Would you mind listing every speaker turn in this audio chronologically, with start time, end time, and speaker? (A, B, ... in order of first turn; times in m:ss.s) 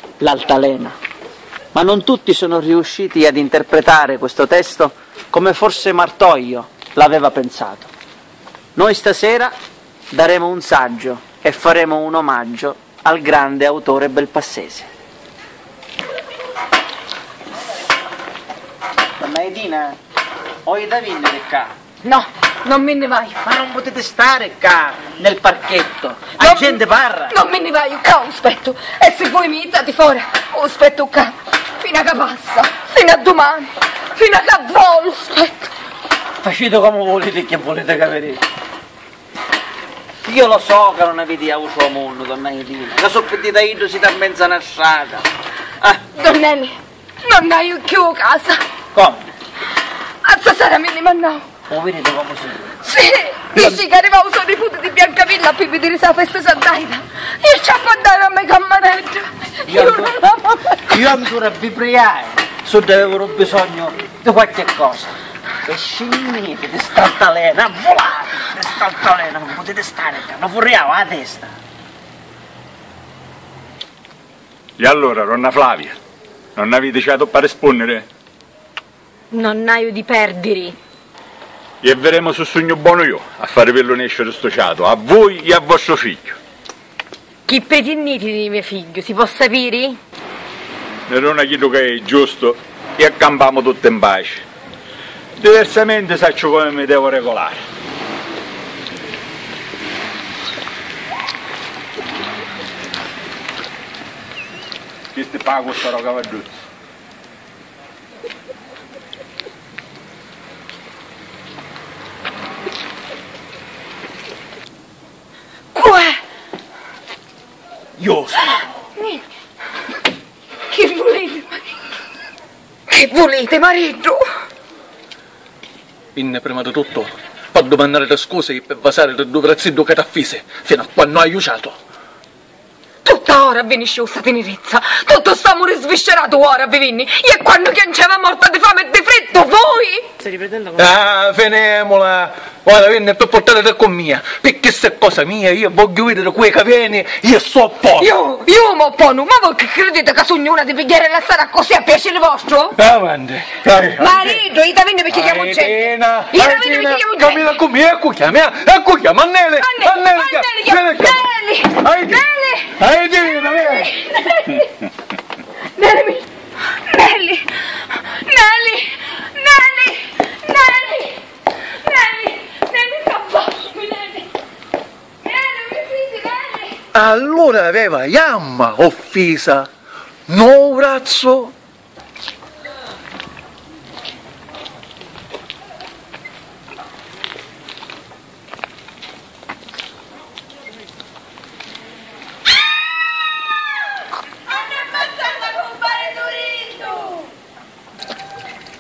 0:00.2-0:01.0 A
0:01.7-0:07.9 A
0:08.8-0:09.5 A
0:10.1-0:14.9 A
0:19.2-0:20.0 A
0:20.6-0:21.7 A
0:22.0-0:23.4 B
0:23.4-0:27.3 A
0:26.4-0:35.7 B
0:36.4-0:38.4 A
0:40.2-0:45.3 A
0:46.1-0:48.6 B
0:48.9-0:49.3 A
0:50.2-0:51.4 B
0:51.7-0:52.8 A
0:52.8-1:00.2 B
0:59.7-1:05.1 A
1:05.6-1:11.5 A
1:14.8-1:16.0 C
1:16.6-1:18.0 C
1:19.3-1:20.8 B
1:21.8-1:26.4 C
1:27.5-1:30.0 B
1:31.1-1:34.4 C
1:35.4-1:37.6 C
1:45.1-1:46.5 C
1:55.7-1:56.2 B
1:58.0-1:58.5 D
1:58.5-1:59.2 B
2:00.7-2:01.7 B
2:02.9-2:04.2 B
2:06.2-2:11.7 D
2:13.0-2:20.1 B
2:20.8-2:27.6 D
2:24.2-2:24.6 C
2:27.1-2:28.1 C
2:28.0-2:32.7 B
2:32.8-2:33.6 D
2:32.9-2:34.2 C
2:34.0-2:37.5 B
2:35.2-2:41.2 C
2:37.9-2:39.4 D
2:39.6-2:44.8 B
2:41.8-2:42.2 C
2:42.9-2:43.9 C
2:45.8-2:51.2 B
2:51.8-2:54.3 B
2:55.2-2:56.8 B
2:56.9-2:59.7 D
3:00.3-3:01.5 D
3:14.8-3:17.2 B